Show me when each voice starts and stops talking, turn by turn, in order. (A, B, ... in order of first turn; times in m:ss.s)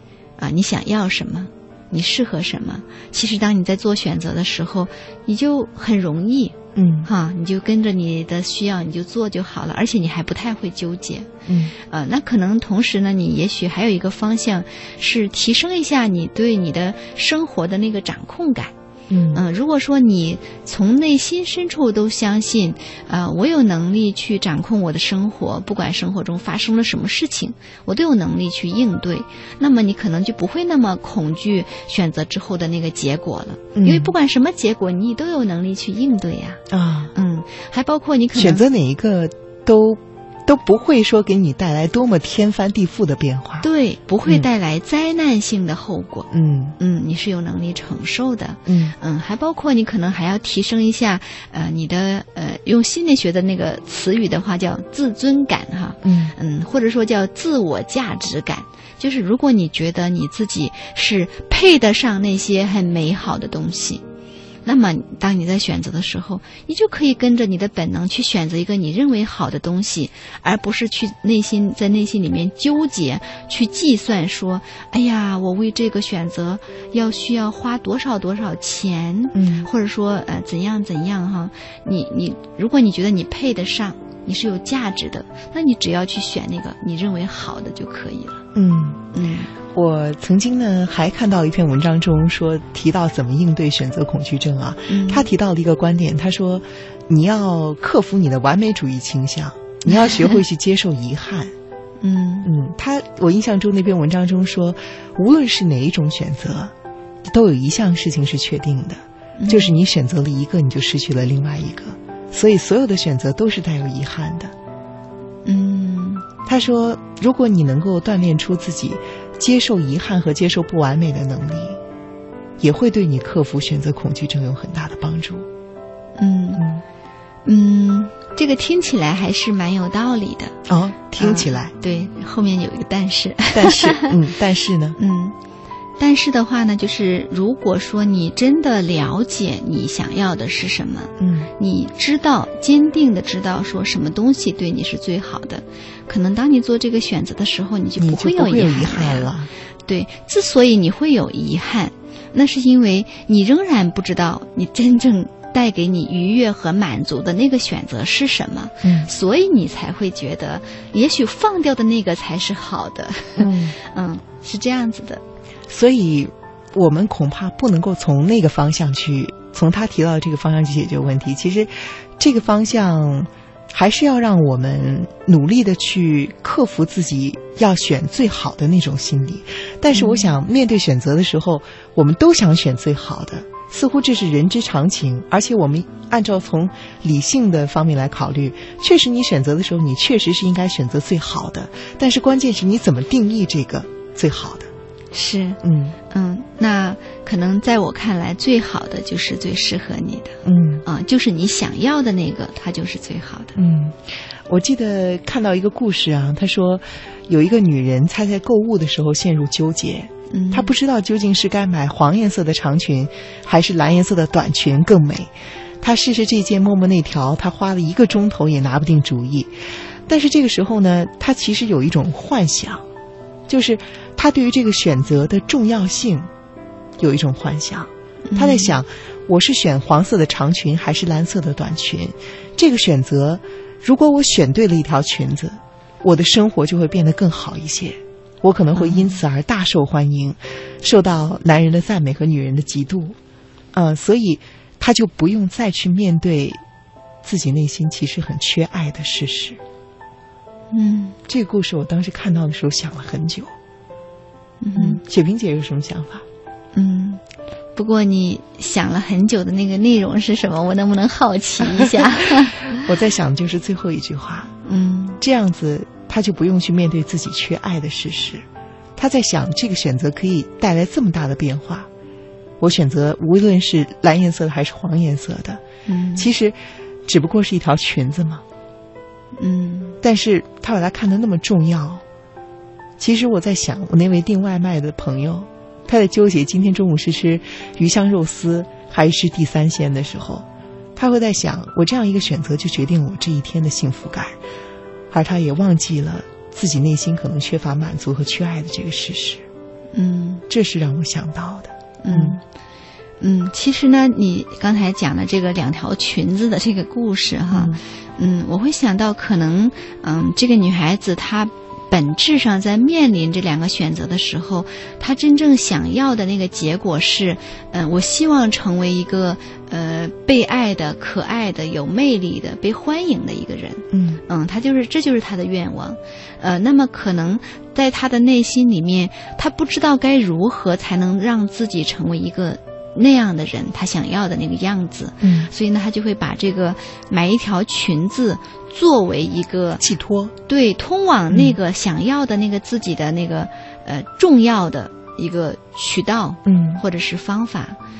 0:00.4-0:18.7 A
0:06.8-0:07.1 B
0:11.5-0:11.7 B
0:19.1-0:19.4 B
0:19.3-0:36.6 A
0:33.7-0:34.1 B
0:36.7-0:37.1 B
0:37.1-0:38.6 A
0:38.3-0:43.6 B
0:43.6-1:04.0 A
0:46.3-0:46.8 B
0:48.6-0:48.9 B
0:56.0-0:56.4 B
1:04.6-1:28.4 A
1:19.3-1:19.7 B
1:28.5-1:29.0 B
1:29.1-1:29.5 A
1:29.7-1:41.5 B
1:34.9-1:35.3 A
1:39.9-1:40.4 A
1:42.0-1:42.5 A
1:42.4-1:46.7 B
1:47.3-1:54.5 B
1:49.4-1:49.7 A
1:55.4-1:56.3 A
1:56.4-2:01.8 B
2:02.6-2:05.5 B
2:06.2-2:06.6 A
2:06.6-2:06.8 B
2:07.4-2:10.6 A
2:10.7-2:11.7 B
2:11.2-2:14.1 A
2:13.5-2:15.0 B
2:15.0-2:15.4 A
2:16.0-2:29.3 A
2:21.2-2:21.5 B
2:28.0-2:29.5 B
2:29.8-2:45.2 A
2:38.8-2:39.1 B
2:43.4-2:43.8 B
2:45.7-3:14.7 B
2:59.9-3:00.3 A
3:15.1-3:23.6 A
3:15.6-3:16.0 B
3:20.4-3:20.8 B
3:23.6-3:35.3 B
3:30.3-3:30.7 A
3:35.8-3:39.5 B
3:40.1-3:42.8 B
3:43.5-3:46.3 B
3:47.0-4:03.2 B
3:48.3-3:48.7 A
3:58.7-3:59.2 A
4:03.7-4:06.6 B
4:07.2-4:09.6 B
4:10.7-4:11.2 A
4:11.3-4:13.5 B
4:14.6-4:15.0 A
4:14.7-4:16.2 B
4:16.7-4:17.2 A
4:17.8-4:22.7 A
4:21.8-4:24.5 B
4:24.6-4:25.2 A
4:25.2-4:28.4 B
4:29.0-4:31.9 B
4:32.6-4:35.6 B
4:35.8-4:36.3 A
4:36.2-4:36.6 B
4:37.1-4:38.4 B
4:39.4-4:40.0 A
4:40.0-4:42.0 B
4:43.0-4:50.4 B
4:51.0-4:54.3 B
4:55.1-4:59.4 B
4:59.9-5:00.4 A
5:00.5-5:02.4 B
5:02.0-5:02.4 A
5:03.2-5:39.8 A
5:07.5-5:07.8 B
5:23.9-5:24.2 B
5:35.2-5:35.5 B
5:39.8-5:40.3 B
5:40.5-5:47.8 A
5:41.3-5:41.6 B
5:46.4-5:46.8 B